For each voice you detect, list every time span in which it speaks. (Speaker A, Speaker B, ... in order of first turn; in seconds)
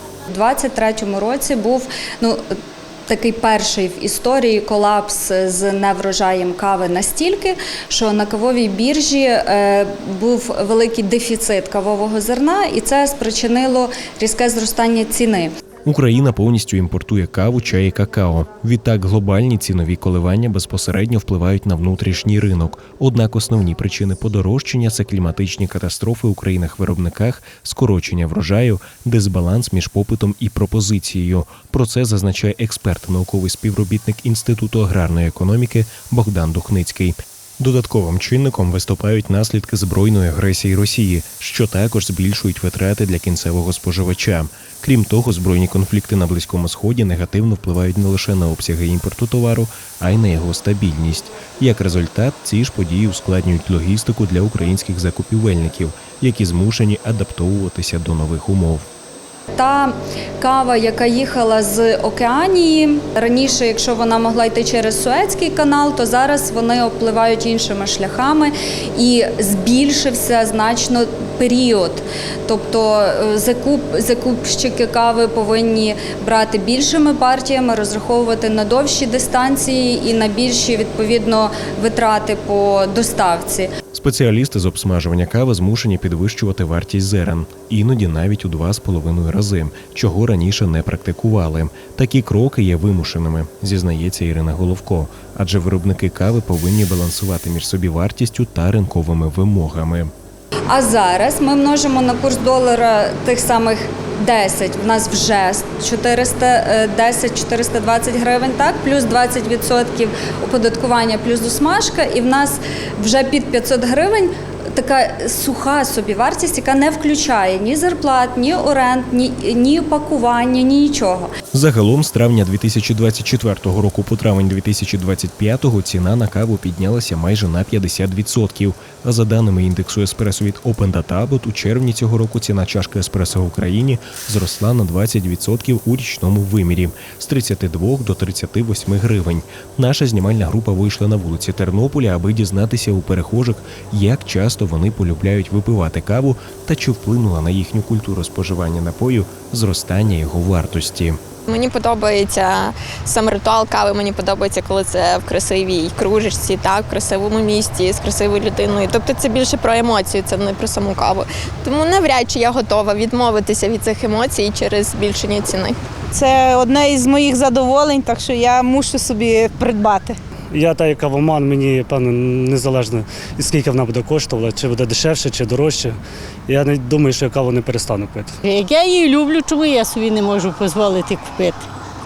Speaker A: 0.3-2.4, 3.1-15.5, 59.5-83.7, 100.7-121.3
Speaker B: 15.8-58.9, 83.9-100.1, 121.5-151.2
Speaker C: 151.5-165.8
Speaker D: 166.1-170.2
Speaker E: 170.5-178.4
Speaker F: 178.4-181.6